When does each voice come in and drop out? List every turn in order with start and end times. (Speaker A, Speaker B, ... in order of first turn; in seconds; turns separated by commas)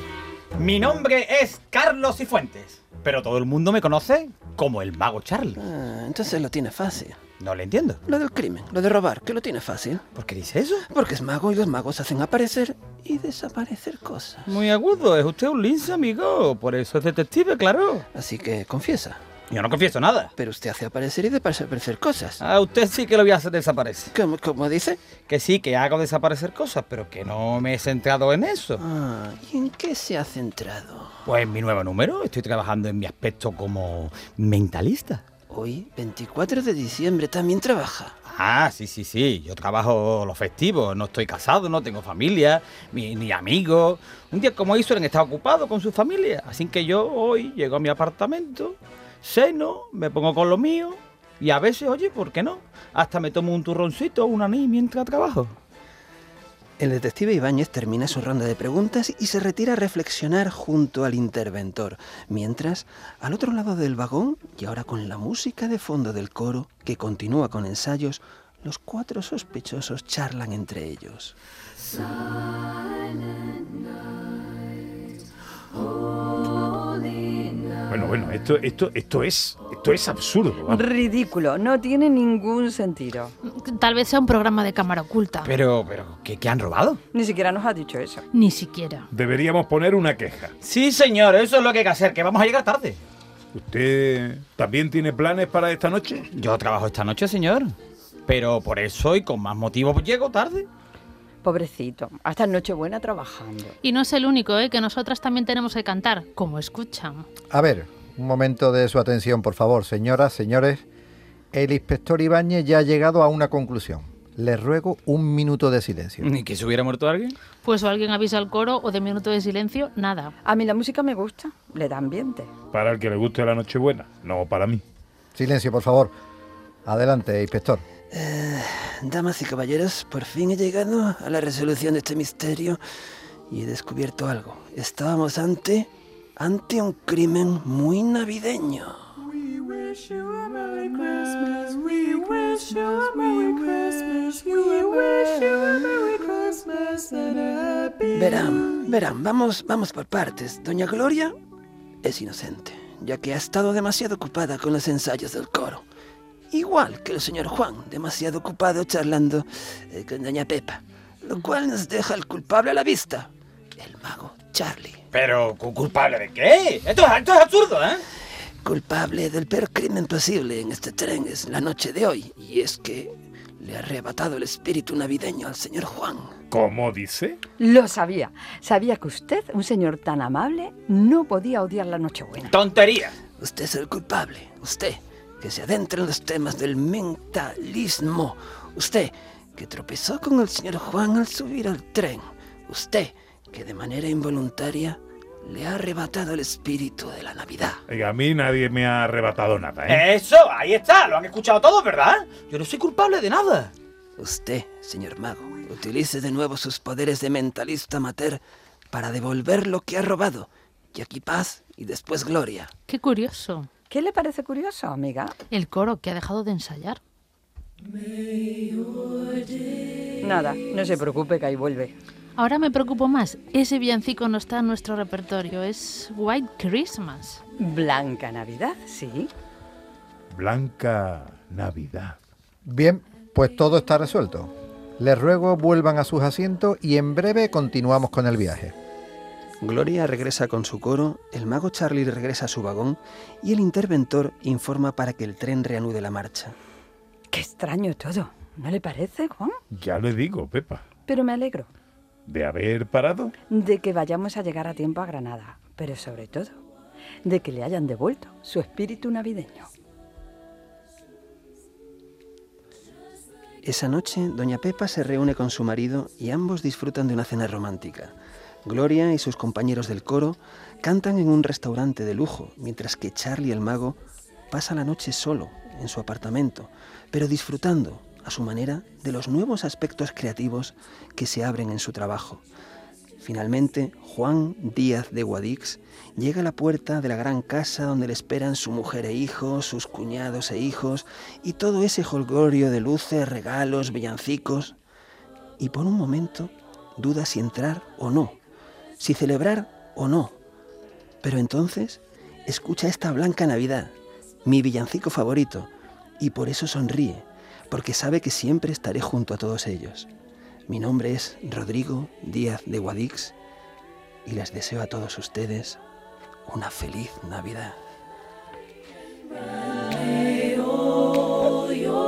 Speaker A: 0.6-5.6, Speaker B: 5.5-7.2, Speaker A: 7.4-8.0, Speaker B: 8.1-10.1, Speaker A: 10.2-10.9, Speaker B: 10.9-14.6, Speaker A: 14.5-18.1, Speaker B: 18.1-19.2, Speaker A: 19.5-20.3, Speaker B: 20.4-22.4, Speaker A: 22.4-24.1, Speaker B: 24.1-25.0, Speaker A: 25.3-28.8, Speaker B: 28.8-31.2, Speaker A: 31.3-35.2, Speaker B: 35.5-38.2, Speaker A: 38.3-55.5, Speaker B: 56.8-71.4, Speaker C: 77.9-80.8, Speaker D: 80.7-83.3, Speaker E: 83.4-85.5, Speaker A: 85.4-87.0, Speaker D: 87.1-88.2, Speaker E: 88.3-89.1, Speaker C: 89.1-90.5, Speaker A: 90.6-93.0, Speaker C: 93.5-96.3, Speaker A: 96.3-97.8, Speaker A: 98.3-100.7, Speaker D: 101.4-103.8, Speaker E: 103.8-107.3, Speaker F: 107.5-110.8, Speaker F: 111.5-116.3, Speaker A: 116.2-117.4, Speaker E: 117.6-120.3, Speaker D: 120.4-122.5, Speaker C: 122.7-124.8, Speaker F: 125.3-126.1, Speaker F: 126.9-127.8, Speaker B: 128.1-132.8, Speaker B: 133.5-139.0, Speaker B: 148.1-151.3, Speaker B: 152.0-155.8, Speaker B: 156.5-165.0, Speaker A: 165.1-168.0, Speaker B: 168.6-176.3, Speaker C: 176.5-177.4, Speaker D: 177.6-182.6, Speaker A: 182.5-183.2, Speaker B: 183.4-197.8, Speaker C: 197.9-200.1, Speaker A: 199.9-203.7, Speaker B: 204.2-212.7, Speaker E: 212.9-213.7, Speaker D: 213.9-215.3, Speaker E: 215.5-217.0, Speaker D: 220.2-221.9, Speaker E: 222.4-227.4, Speaker D: 227.6-229.3, Speaker C: 230.3-232.2, Speaker F: 232.7-238.7, Speaker B: 239.6-246.6, Speaker D: 247.3-249.6, Speaker C: 249.7-250.8, Speaker D: 251.1-251.7, Speaker C: 252.3-253.3, Speaker D: 253.5-256.6, Speaker D: 257.2-259.7, Speaker B: 263.6-274.0, Speaker B: 274.5-282.4, Speaker B: 283.2-294.8, Speaker B: 295.6-298.4, Speaker B: 299.0-300.4, Speaker B: 301.2-303.9, Speaker B: 304.4-310.1, Speaker B: 310.7-313.4, Speaker B: 314.2-315.8, Speaker B: 316.5-317.8